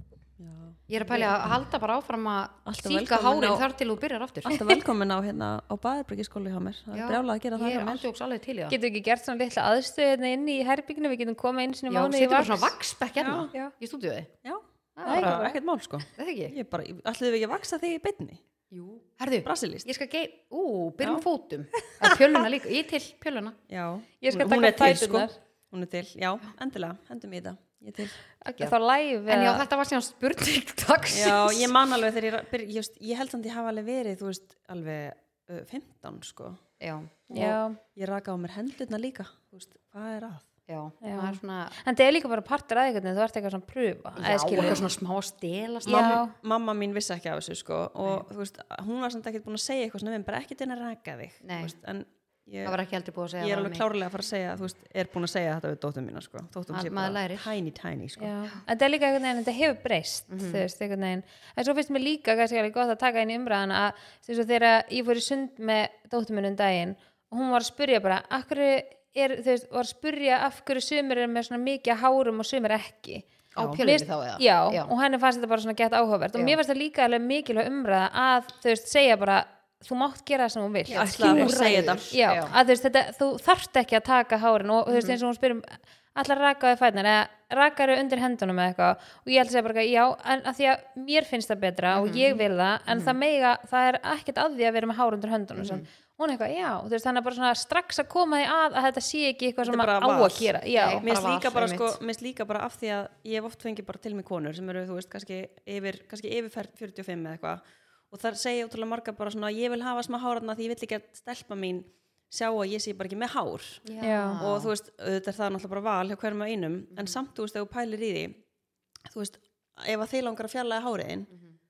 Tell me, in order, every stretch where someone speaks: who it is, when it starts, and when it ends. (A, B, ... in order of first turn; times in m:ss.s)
0:00.4-0:01.5 A
0:00.9-0:04.6 B
0:02.7-0:03.7 A
0:04.4-0:08.1 A
0:06.9-0:08.8 B
0:08.7-0:12.7 C
0:11.9-0:14.3 B
0:13.2-0:13.5 A
0:14.4-0:18.4 A
0:15.0-0:15.5 B
0:15.0-0:15.5 C
0:16.2-0:16.6 B
0:18.7-0:23.6 B
0:19.4-0:19.9 A
0:22.0-0:22.3 A
0:23.7-0:28.2 A
0:24.2-0:25.4 C
0:28.4-0:29.6 C
0:29.3-0:31.7 B
0:31.1-0:36.6 A
0:36.8-0:37.3 B
0:37.3-0:37.8 C
0:37.3-0:40.5 A
0:40.7-0:41.8 B
0:41.0-0:44.8 C
0:44.2-0:46.2 B
0:45.8-0:52.8 A
0:45.9-0:46.4 C
0:51.4-0:51.7 B
0:52.6-0:53.8 B
0:53.4-0:58.3 A
0:56.7-0:57.5 B
0:58.2-1:13.3 C
1:00.3-1:00.6 B
1:13.6-1:14.9 B
1:13.8-1:21.6 C
1:20.9-1:22.1 A
1:20.9-1:22.6 B
1:22.1-1:41.0 C
1:24.9-1:25.2 B
1:31.9-1:33.2 B
1:35.6-1:35.8 B
1:39.6-1:53.8 A
1:40.7-1:42.0 B
1:53.8-1:54.7 B
1:54.0-1:54.4 C
1:54.4-1:58.4 A
1:59.1-2:01.3 A